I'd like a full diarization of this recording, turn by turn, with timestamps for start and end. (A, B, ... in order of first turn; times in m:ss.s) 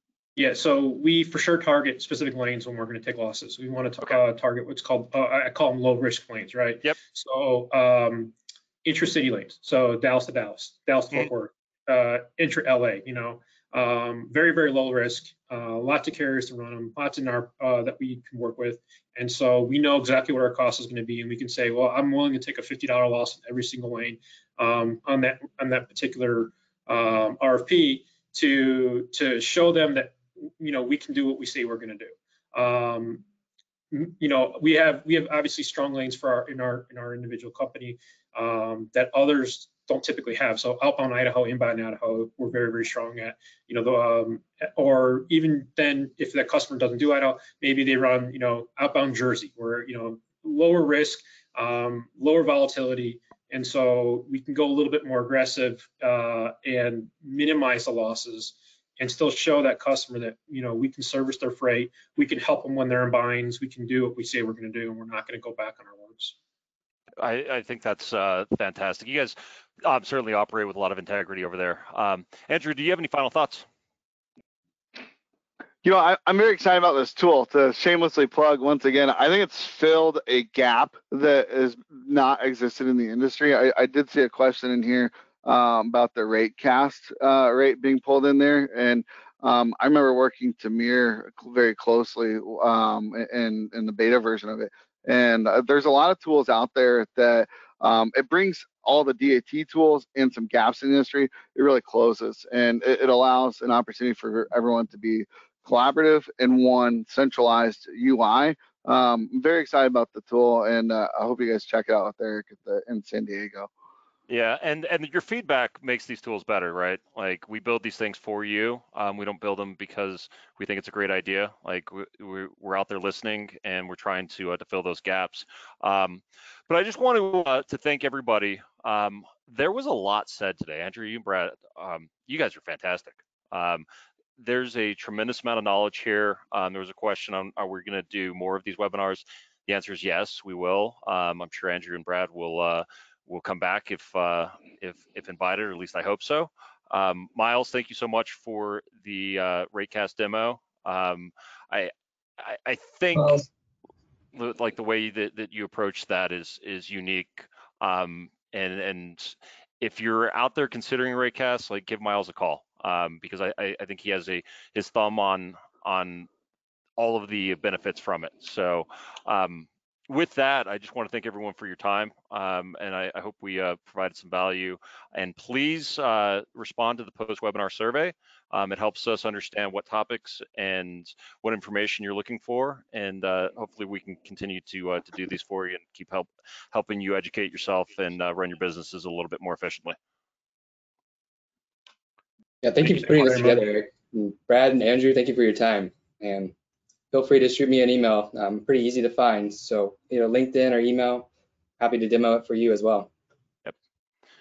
0:00.4-0:33.2 A
0:33.9-1:06.4 A
1:07.2-1:13.6 B
1:15.8-1:53.7 C
1:54.3-2:13.8 B
2:14.4-2:33.5 B
2:33.2-2:33.4 D
2:34.3-2:46.3 B
2:47.0-3:10.0 B
3:12.6-3:16.5 D
3:12.8-3:13.6 A
3:17.1-3:21.3 D
3:21.8-3:23.1 D